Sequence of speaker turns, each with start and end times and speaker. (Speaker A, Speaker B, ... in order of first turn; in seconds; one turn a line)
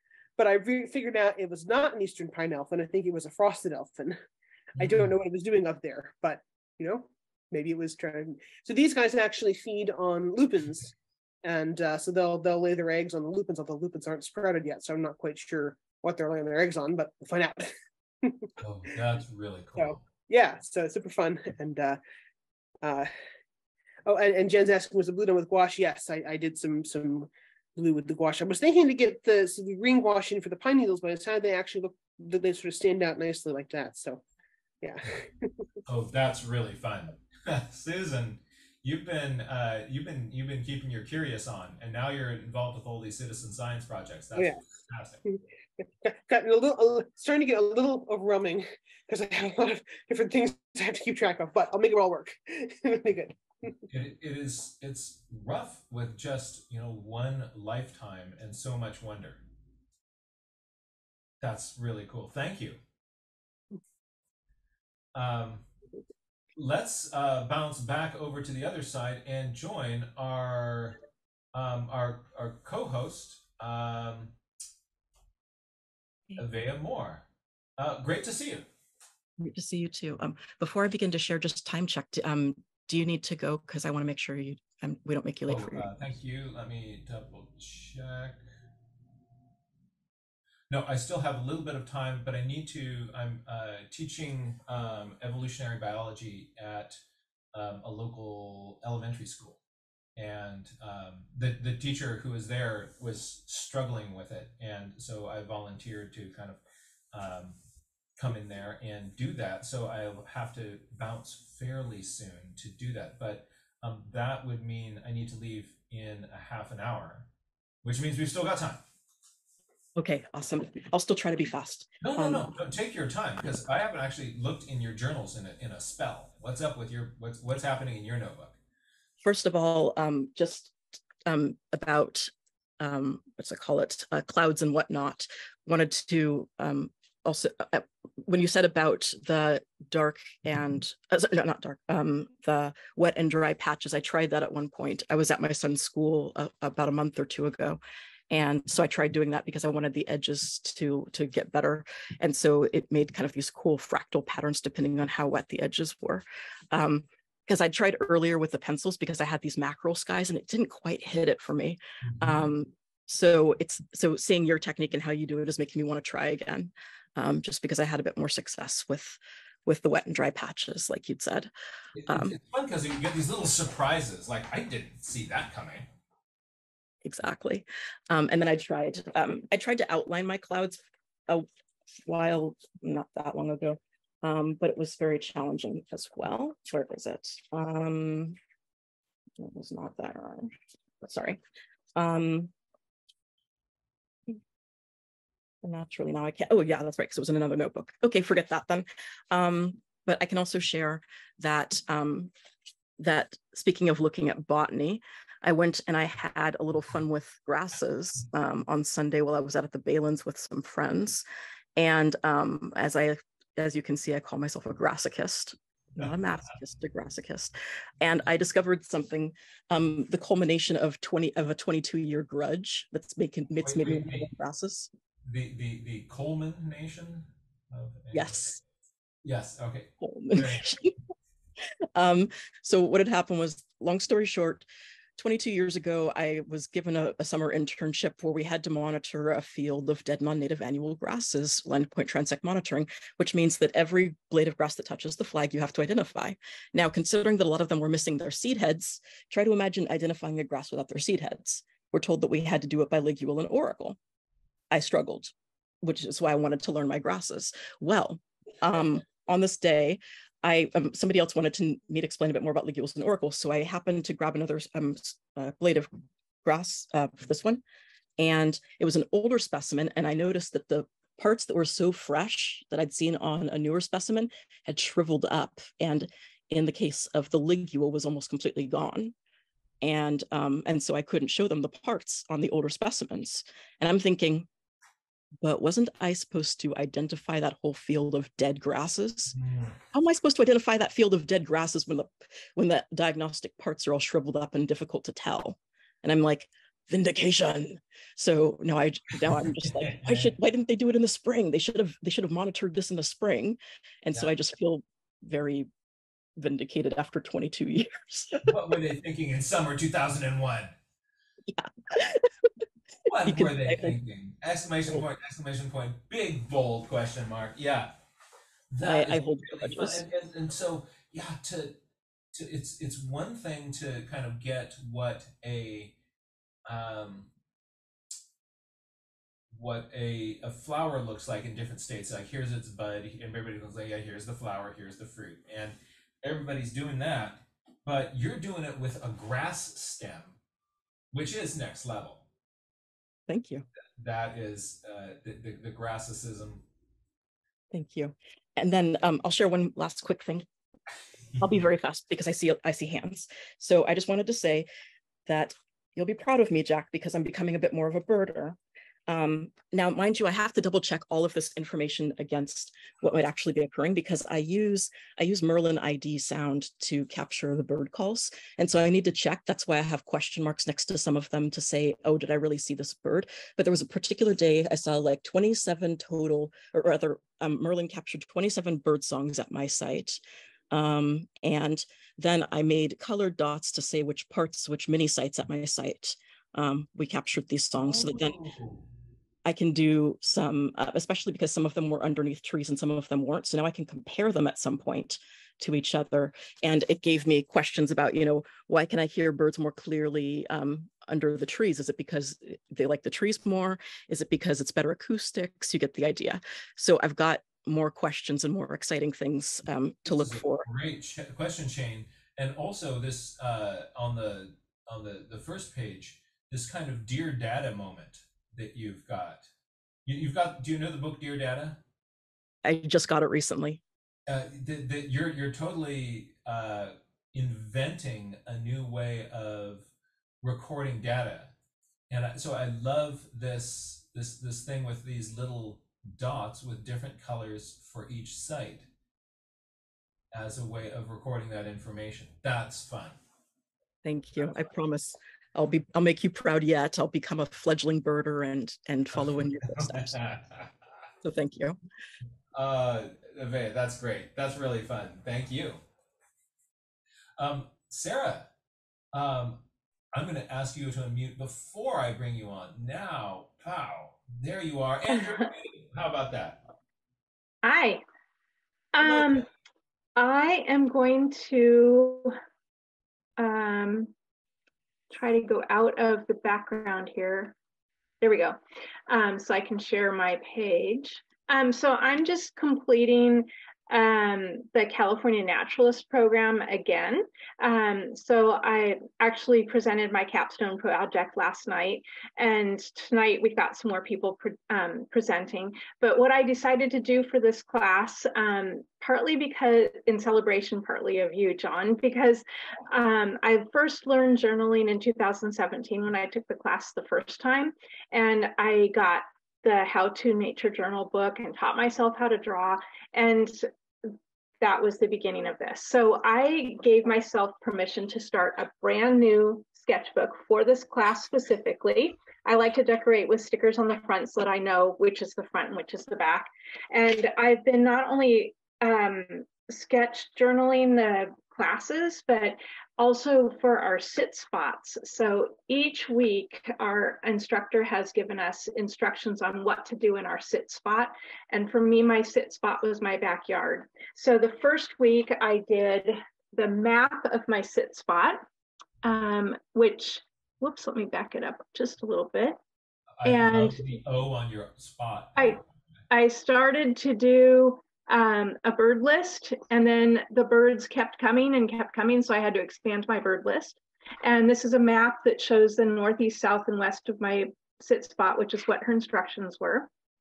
Speaker A: 0.4-4.2
Speaker B: 4.8-5.1
Speaker A: 4.8-10.9
Speaker A: 11.4-17.7
Speaker A: 18.2-18.5
Speaker B: 18.6-20.1
Speaker A: 19.8-22.0
Speaker A: 22.8-23.1
Speaker A: 24.1-34.2
Speaker A: 34.8-35.5
Speaker B: 35.9-45.2
Speaker A: 46.0-53.8
Speaker B: 53.9-59.4
Speaker B: 61.4-62.8
Speaker B: 65.2-65.7
Speaker B: 66.6-71.0
Speaker B: 71.5-74.3
Speaker B: 76.4-77.2
Speaker B: 77.8-78.7
Speaker C: 79.4-85.9
Speaker B: 85.5-88.4
Speaker B: 90.7-97.0
Speaker B: 97.5-99.6
Speaker B: 100.2-106.6
Speaker B: 107.1-107.6
Speaker B: 108.2-117.3
Speaker B: 117.8-118.8
Speaker C: 120.0-122.5
Speaker B: 122.0-128.6
Speaker C: 129.2-171.5
Speaker B: 162.1-162.5
Speaker B: 171.9-175.9
Speaker C: 172.1-172.3
Speaker C: 177.0-181.5
Speaker C: 182.1-188.4
Speaker C: 189.4-191.4
Speaker C: 191.9-192.5
Speaker C: 195.6-202.3
Speaker C: 203.0-211.2
Speaker C: 211.8-224.9
Speaker B: 223.6-224.3
Speaker B: 225.2-228.6
Speaker C: 228.1-228.6
Speaker B: 229.2-230.7
Speaker C: 230.0-230.9
Speaker C: 231.9-254.0
Speaker C: 254.7-265.9
Speaker C: 266.4-267.6
Speaker C: 268.2-279.1
Speaker C: 279.8-284.5
Speaker C: 285.4-289.4
Speaker B: 289.3-289.8
Speaker C: 289.9-305.7
Speaker B: 299.6-300.4
Speaker C: 306.4-308.5
Speaker B: 308.5-310.7
Speaker C: 311.5-312.3
Speaker B: 313.1-317.9
Speaker C: 313.2-314.0
Speaker B: 318.7-321.8
Speaker C: 318.8-320.1
Speaker B: 322.3-325.9
Speaker B: 326.7-327.3
Speaker B: 329.5-340.4
Speaker B: 341.1-342.2
Speaker C: 343.3-343.7
Speaker B: 344.0-346.6
Speaker C: 347.7-350.5
Speaker C: 351.4-354.7
Speaker C: 355.3-380.2
Speaker C: 380.7-388.4
Speaker B: 387.8-388.8
Speaker C: 389.4-410.7
Speaker B: 410.1-419.5
Speaker B: 420.1-421.8
Speaker C: 422.6-423.8
Speaker B: 424.3-429.9
Speaker B: 430.4-431.5
Speaker B: 432.1-438.9
Speaker B: 440.3-443.2
Speaker C: 444.0-450.2
Speaker B: 449.1-450.7
Speaker C: 451.2-451.8
Speaker B: 452.5-455.8
Speaker B: 457.4-458.5
Speaker B: 459.1-459.6
Speaker B: 460.1-466.6
Speaker D: 467.6-468.0
Speaker D: 468.9-469.5
Speaker B: 469.0-469.3
Speaker D: 470.2-472.3
Speaker D: 473.4-474.1
Speaker D: 475.1-477.6
Speaker D: 478.2-478.6
Speaker D: 479.1-513.7
Speaker D: 514.6-548.4
Speaker D: 549.0-552.6
Speaker B: 553.2-555.6
Speaker D: 553.2-553.8
Speaker D: 556.1-569.9